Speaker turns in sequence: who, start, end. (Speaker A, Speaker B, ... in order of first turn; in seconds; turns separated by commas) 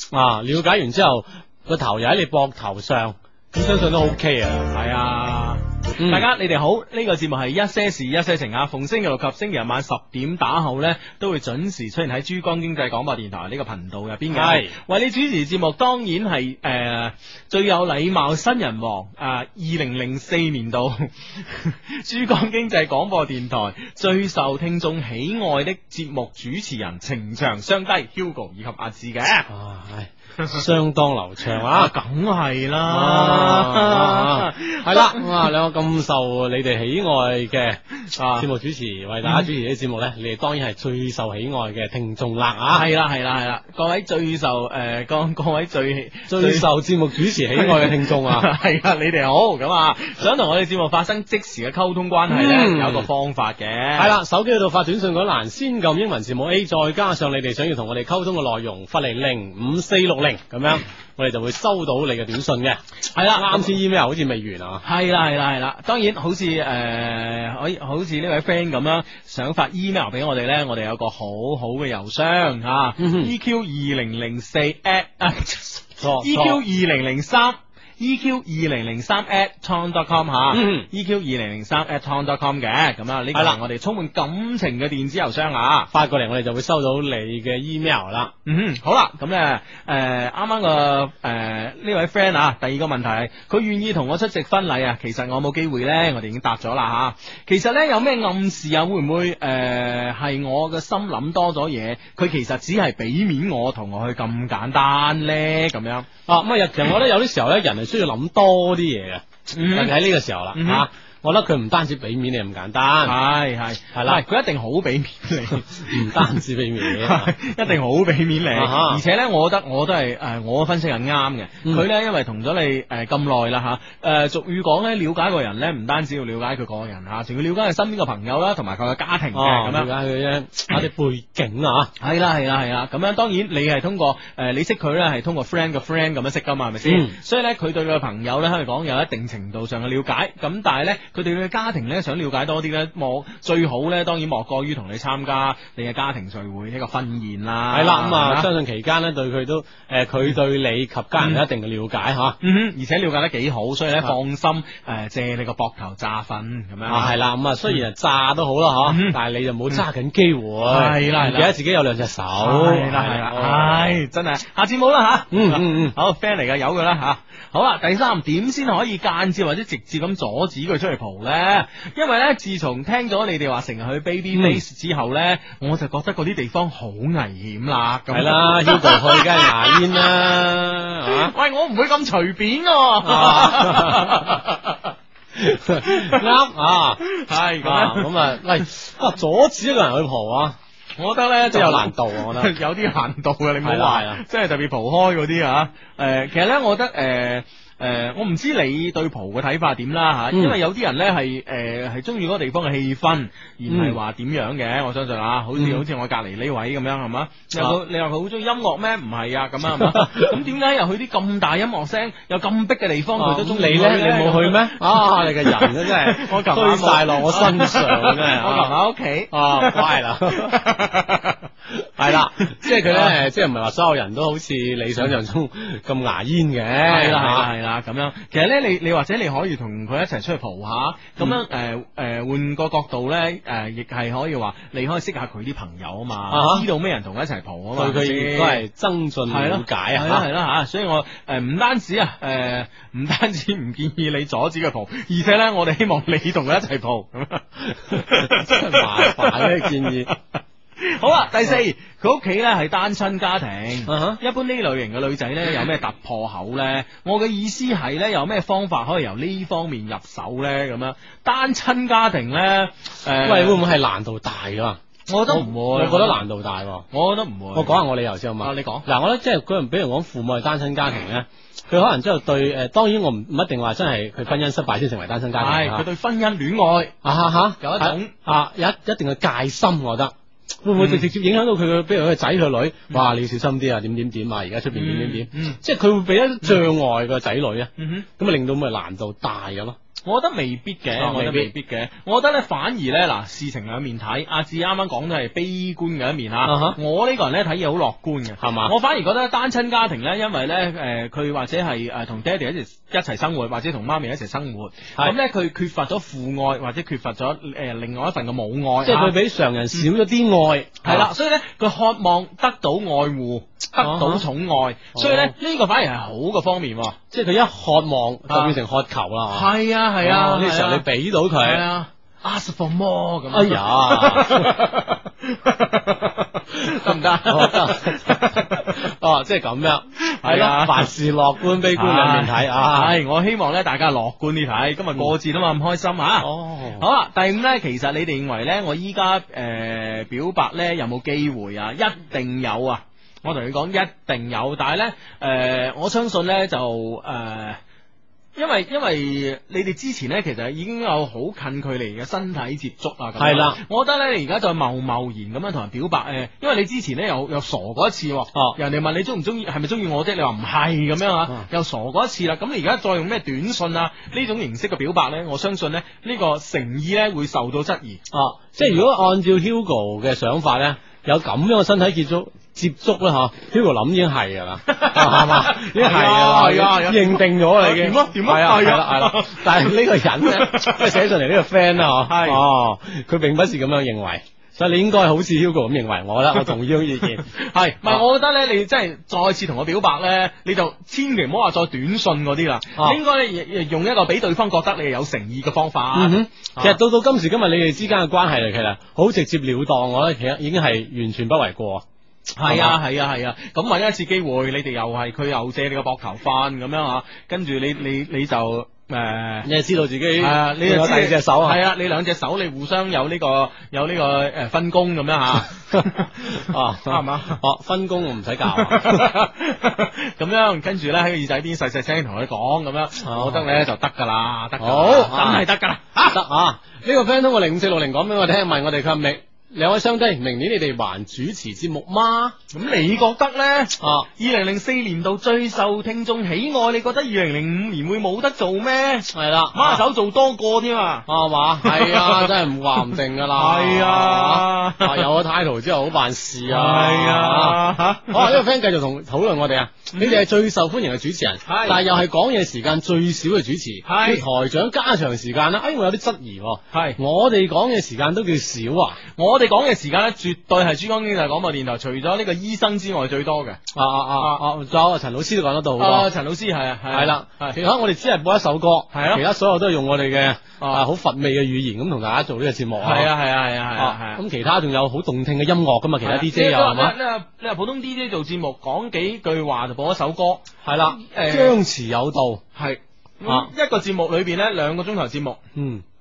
Speaker A: 0.1-4.7, Speaker B: 4.7-29.5, Speaker A: 6.0-6.2, Speaker A: 14.3-14.7, Speaker A: 29.5-31.9, Speaker B: 31.6-35.5, Speaker A: 32.9-37.8, Speaker B: 38.1-38.5, Speaker A: 38.4-42.9, Speaker B: 39.2-39.5, Speaker B: 42.7-46.7, Speaker A: 46.3-48.5, Speaker B: 47.5-54.1, Speaker A: 52.3-53.1, Speaker A: 54.0-62.8, Speaker B: 63.1-63.7, Speaker A: 63.4-64.8, Speaker B: 64.8-85.9, Speaker A: 73.0-73.3, Speaker A: 76.0-76.6, Speaker A: 80.5-80.9, Speaker A: 83.3-83.6, Speaker A: 85.9-88.3, Speaker B: 88.5-106.1, Speaker A: 106.3-113.2, Speaker B: 109.5-110.0, Speaker B: 110.5-110.9, Speaker B: 113.0-116.3, Speaker A: 113.9-114.2, Speaker A: 115.8-117.3, Speaker B: 116.8-129.9, Speaker A: 118.5-119.0, Speaker A: 129.3-131.9, Speaker B: 132.0-148.5, Speaker A: 136.8-137.1, Speaker A: 147.7-152.4, Speaker B: 152.4-157.2, Speaker A: 156.9-164.0, Speaker B: 158.8-159.2, Speaker B: 160.7-161.5, Speaker B: 162.4-180.1, Speaker A: 165.3-165.9, Speaker A: 174.3-174.6, Speaker A: 178.1-181.3, Speaker B: 181.0-184.9, Speaker A: 183.0-184.4, Speaker A: 185.3-187.0, Speaker B: 185.8-186.4, Speaker B: 187.1-188.3, Speaker A: 187.6-190.6, Speaker B: 191.0-221.4, Speaker A: 191.5-192.5, Speaker A: 193.6-194.2, Speaker A: 200.3-200.6, Speaker A: 203.7-204.0, Speaker A: 205.5-205.8, Speaker A: 209.8-210.3, Speaker A: 213.2-218.7, Speaker A: 219.3-220.6, Speaker A: 221.7-227.5, Speaker B: 222.1-223.2, Speaker B: 226.9-238.6, Speaker A: 236.3-236.7, Speaker A: 237.8-240.2, Speaker B: 239.3-263.6, Speaker A: 247.7-250.1, Speaker A: 253.9-254.2, Speaker A: 263.2-266.9, Speaker B: 265.1-266.2, Speaker B: 266.9-267.8, Speaker A: 267.5-275.9, Speaker B: 268.4-268.9, Speaker B: 275.4-276.9, Speaker A: 277.0-289.8, Speaker B: 277.6-278.1, Speaker B: 280.8-281.1, Speaker B: 284.7-285.6, Speaker B: 287.8-288.1, Speaker B: 290.0-309.1, Speaker A: 290.9-291.5, Speaker A: 296.4-296.8, Speaker A: 298.4-298.7, Speaker A: 308.8-311.1, Speaker B: 310.8-317.0, Speaker A: 313.8-314.2, Speaker A: 314.9-315.3, Speaker A: 317.1-319.5, Speaker B: 318.3-318.6, Speaker B: 319.3-320.9, Speaker A: 320.0-321.6, Speaker B: 321.4-328.8, Speaker A: 323.3-324.6, Speaker A: 327.2-332.9, Speaker B: 330.1-330.9, Speaker B: 331.7-347.6, Speaker A: 336.2-336.9, Speaker B: 348.4-368.0, Speaker A: 353.2-353.6, Speaker A: 368.1-387.3, Speaker B: 374.7-379.6, Speaker B: 380.4-380.9, Speaker B: 382.0-382.4, Speaker B: 387.2-396.8, Speaker A: 395.9-401.8, Speaker B: 402.4-409.5, Speaker A: 402.4-402.8, Speaker A: 409.4-411.6, Speaker B: 410.2-417.4, Speaker A: 415.7-419.1, Speaker B: 418.5-426.1, Speaker A: 423.0-423.4, Speaker A: 424.6-425.4, Speaker A: 426.0-432.4, Speaker B: 432.5-441.1, Speaker A: 433.8-434.1, Speaker A: 439.1-439.8, Speaker A: 441.1-459.0, Speaker B: 441.6-445.1, Speaker B: 446.4-448.4, Speaker B: 449.9-450.2, Speaker B: 451.4-451.8, Speaker B: 453.9-454.2, Speaker B: 456.7-457.0, Speaker B: 459.1-463.6, Speaker A: 463.7-466.1, Speaker B: 464.2-464.4, Speaker B: 465.8-467.6, Speaker A: 466.9-473.1, Speaker B: 468.9-469.2, Speaker B: 470.6-470.8, Speaker B: 472.8-474.2, Speaker A: 473.8-476.9, Speaker B: 476.0-481.6, Speaker A: 480.6-482.4, Speaker B: 482.6-485.4, Speaker A: 483.2-483.5, Speaker A: 485.5-485.8